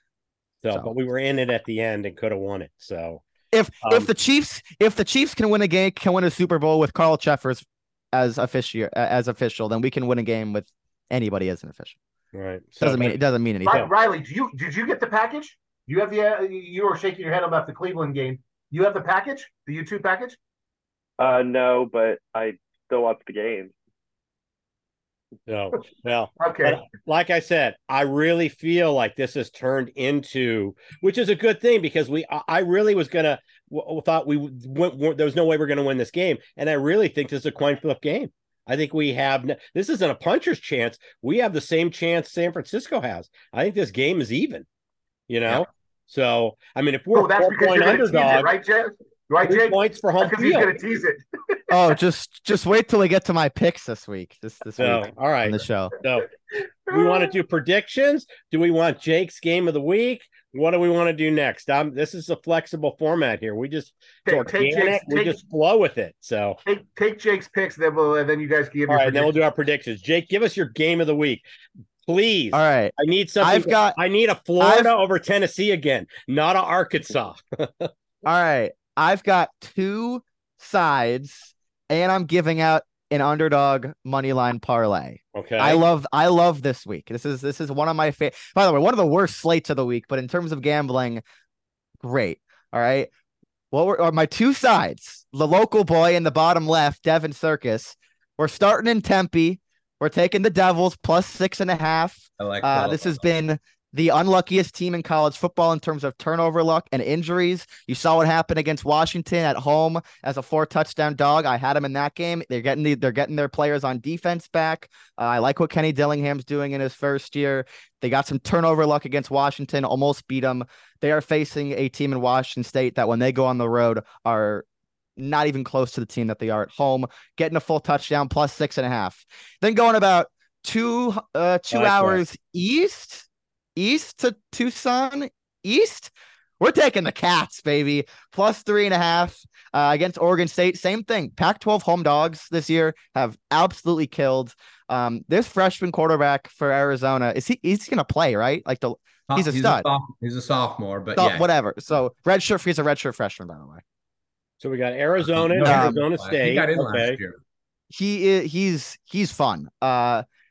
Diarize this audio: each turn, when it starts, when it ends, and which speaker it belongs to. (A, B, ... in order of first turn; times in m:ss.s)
0:00.6-0:03.2 A
0:03.5-0:12.0 B
0:03.8-0:04.1 A
0:12.3-0:13.9 A
0:12.8-0:13.9 B
0:13.6-0:20.4 C
0:21.2-0:23.7 D
0:25.5-0:44.6 A
0:26.4-0:26.8 C
0:45.3-0:48.5 A
0:47.1-0:51.8 C
0:49.4-0:50.7 A
0:51.7-0:55.9 B
0:54.8-0:56.3 A
0:56.9-1:06.6 A
0:56.9-0:57.3 C
1:04.3-1:05.4 C
1:06.6-1:09.4 C
1:08.9-1:11.4 A
1:12.1-1:17.9 A
1:12.5-1:14.0 B
1:14.6-1:14.9 B
1:18.2-1:31.2 B
1:25.3-1:25.8 A
1:32.0-1:33.1 B
1:33.7-2:04.6 B
1:42.4-1:43.2 E
2:05.2-2:29.8 B
2:11.7-2:12.2 A
2:29.3-2:31.5 E
2:31.2-2:33.8 B
2:34.6-2:37.2 A
2:35.2-2:37.4 E
2:35.6-2:36.0 B
2:37.9-2:40.2 B